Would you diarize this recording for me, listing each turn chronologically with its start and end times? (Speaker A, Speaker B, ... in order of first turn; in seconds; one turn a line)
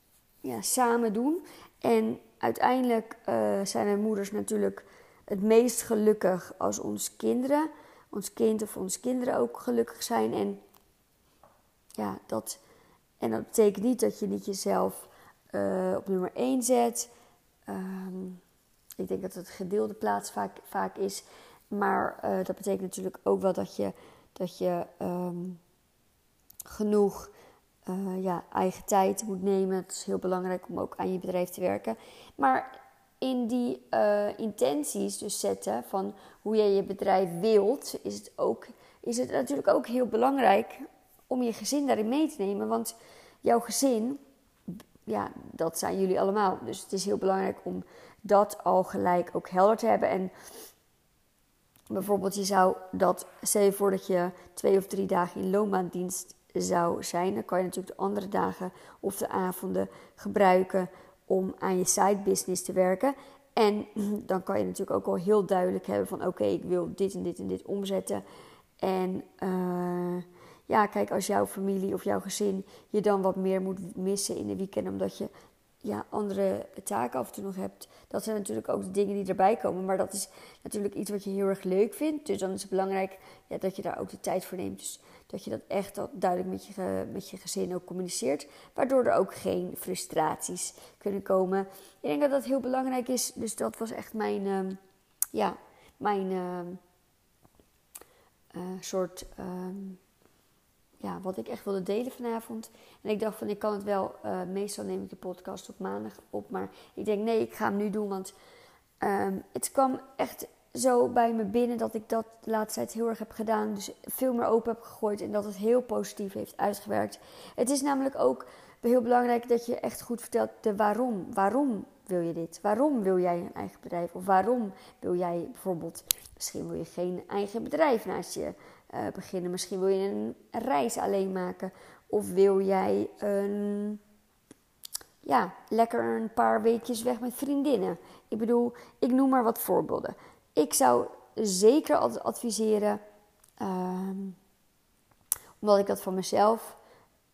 Speaker A: 0.4-10.6
Speaker A: 12.0-12.6
Speaker A: 13.2-17.1
Speaker A: 17.7-18.4
Speaker A: 19.0-25.6
Speaker A: 26.6-27.3
Speaker A: 27.9-44.2
Speaker A: 45.1-50.3
Speaker A: 51.9-68.2
Speaker A: 68.8-75.3
Speaker A: 75.8-94.8
Speaker A: 95.3-96.8
Speaker A: 98.5-100.0
Speaker A: 101.0-108.3
Speaker A: 109.0-134.0
Speaker A: 135.2-143.0
Speaker A: 143.6-144.4
Speaker A: 145.6-146.8